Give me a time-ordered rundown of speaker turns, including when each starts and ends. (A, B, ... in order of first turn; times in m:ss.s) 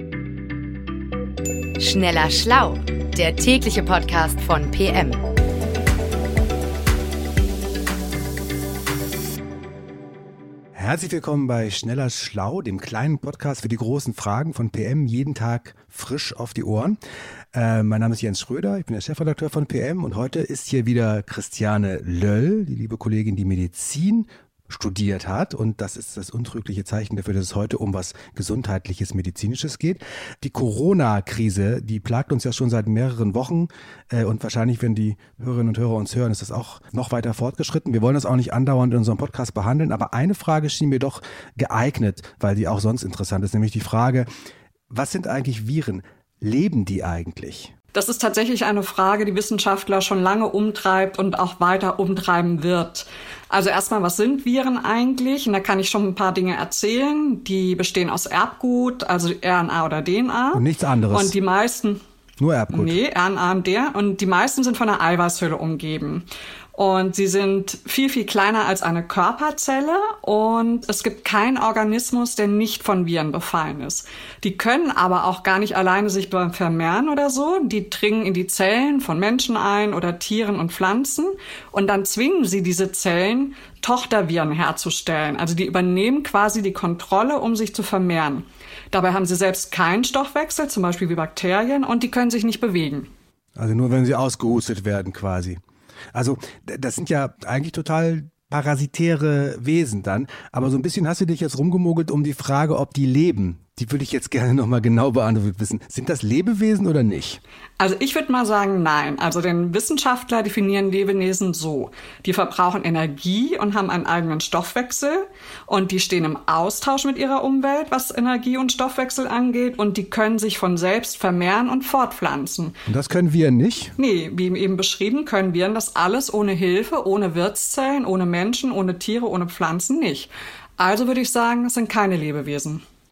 0:01.8-0:05.2 A
0:10.8-0:17.0 B
0:17.5-0:44.3 B
0:44.9-0:47.7 B
0:47.9-1:02.0 C
1:00.5-1:01.4 B
1:02.4-1:03.0 B
1:02.7-1:33.1 C
1:33.6-1:35.6 B
1:36.1-1:47.4 B
1:47.8-2:02.8 C
2:02.9-2:04.0 B
2:04.0-2:12.8 C